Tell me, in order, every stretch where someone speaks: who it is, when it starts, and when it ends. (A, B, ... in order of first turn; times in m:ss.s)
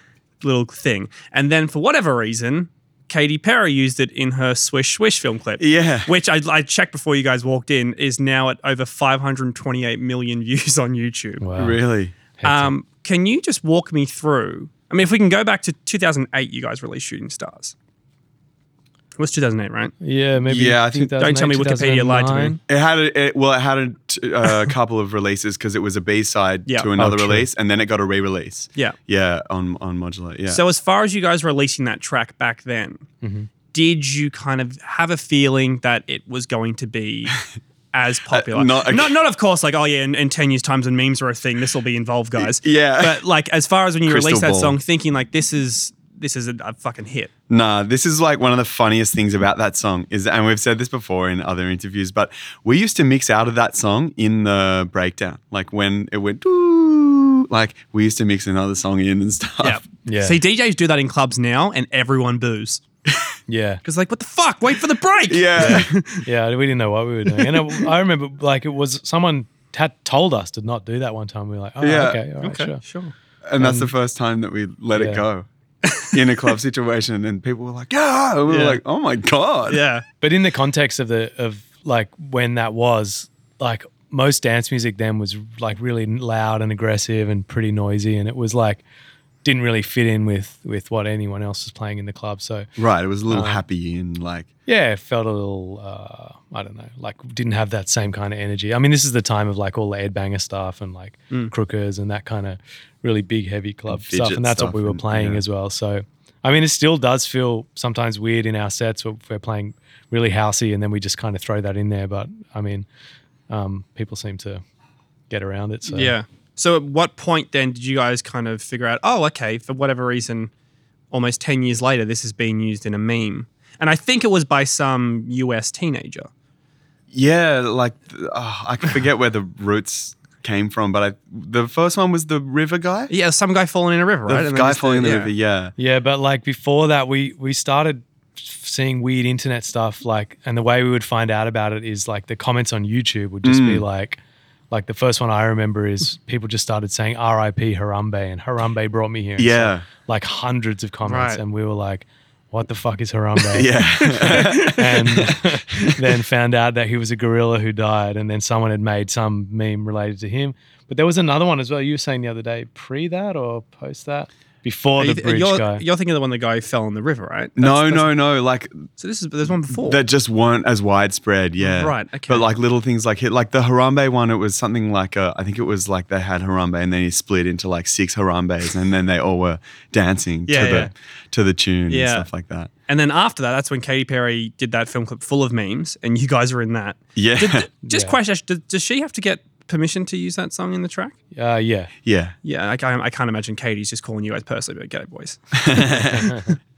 0:00.4-0:11.4 A
0:05.6-0:06.1 B
0:11.4-0:11.8 C
0:11.6-0:12.1 B
0:12.4-0:12.7 C
0:12.4-0:17.7 A
0:19.2-0:19.9 A
0:20.0-0:22.6 C
0:20.5-0:21.2 B
0:21.2-0:22.6 A
0:22.7-0:30.6 B
0:27.0-0:27.5 C
0:30.5-0:33.0 A
0:33.2-0:33.5 C
0:33.7-0:37.4 A
0:37.9-0:47.3 A
0:38.3-0:39.2 B
0:42.4-0:43.2 B
0:44.0-0:44.8 B
0:47.5-0:59.8 B
0:59.6-1:02.8 A
1:00.0-1:00.4 C
1:03.5-1:03.8 C
1:03.8-1:06.2 A
1:05.3-1:05.9 B
1:05.6-1:12.8 C
1:07.3-1:07.8 A
1:11.8-1:12.2 B
1:12.4-1:13.1 A
1:13.4-1:15.5 B
1:13.6-1:13.9 C
1:14.9-1:15.2 C
1:15.8-1:16.2 A
1:16.0-1:19.8 B
1:18.5-1:18.8 A
1:19.7-1:20.0 A
1:20.2-1:28.8 C
1:29.4-1:32.7 C
1:32.8-1:34.5 B
1:33.3-1:33.6 C
1:34.7-1:52.8 C
1:43.9-1:45.4 B
1:53.5-1:54.6 C
1:55.3-1:56.1 C
1:55.9-2:00.5 A
2:01.1-2:06.3 A
2:07.1-2:13.1 B
2:13.1-2:15.3 A
2:14.3-2:15.7 B
2:15.8-2:24.2 C
2:23.4-2:23.8 B
2:24.7-2:45.8 C
2:29.4-2:29.9 B
2:31.0-2:31.4 A
2:33.5-2:36.0 B
2:34.2-2:34.8 A
2:45.0-2:48.2 A
2:47.6-2:48.9 B
2:49.0-2:50.0 A
2:49.7-3:02.7 B
2:51.6-2:52.5 A
3:00.5-3:00.9 A
3:01.9-3:02.3 A
3:02.9-3:11.2 A
3:07.2-3:07.7 B
3:07.8-3:08.2 C
3:11.3-3:11.9 C
3:12.0-3:12.3 B
3:12.4-3:16.5 A
3:15.5-3:16.3 B